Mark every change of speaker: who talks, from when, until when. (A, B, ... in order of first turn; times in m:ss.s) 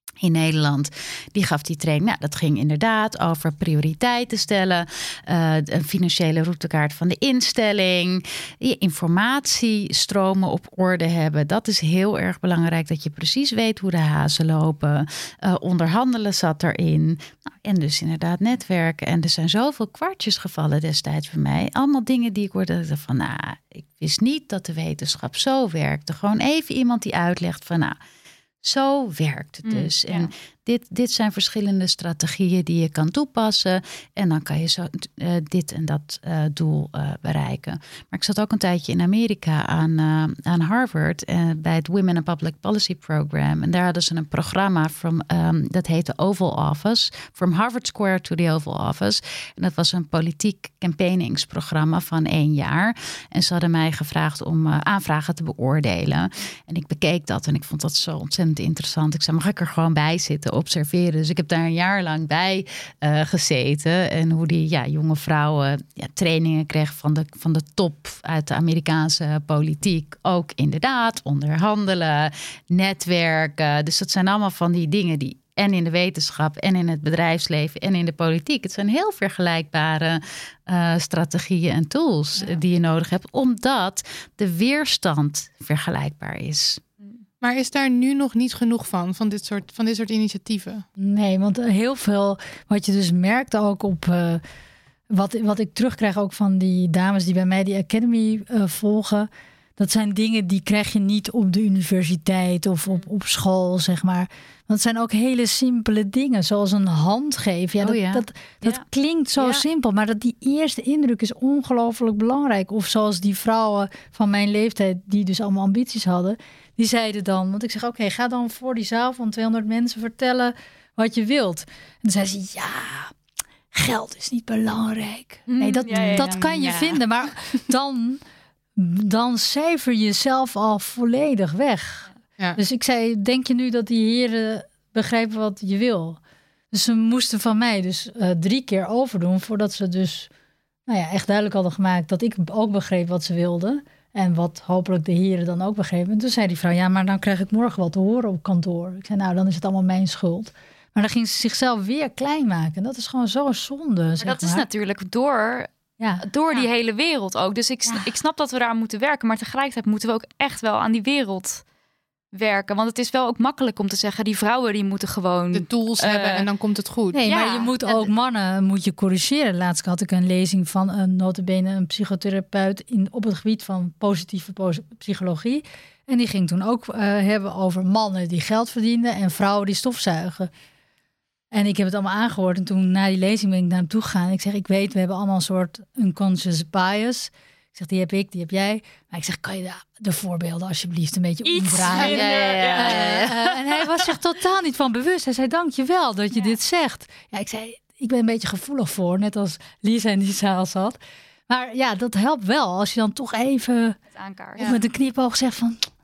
0:00.2-0:28.0 A
0:28.6-1:26.8 A
0:29.6-0:30.3 B
1:27.4-1:30.8 C
1:31.0-1:34.4 D
1:35.1-2:03.1 D
1:47.8-1:48.8 A
1:49.4-1:49.6 A
2:03.7-2:08.2 D
2:05.5-2:06.4 B
2:06.2-2:07.6 C
2:08.8-2:16.2 D
2:16.7-2:20.3 D
2:20.9-2:34.6 D
2:34.2-2:41.6 B
2:36.0-2:36.2 D
2:42.3-2:46.4 B
2:45.5-2:47.2 C
2:47.1-3:00.5 D
2:47.2-2:47.7 B
2:47.8-2:48.1 A
3:01.5-3:21.0 D
3:11.4-3:13.1 B
3:12.0-3:13.9 A
3:21.5-3:24.0 D
3:24.1-3:24.7 B
3:24.6-3:25.9 D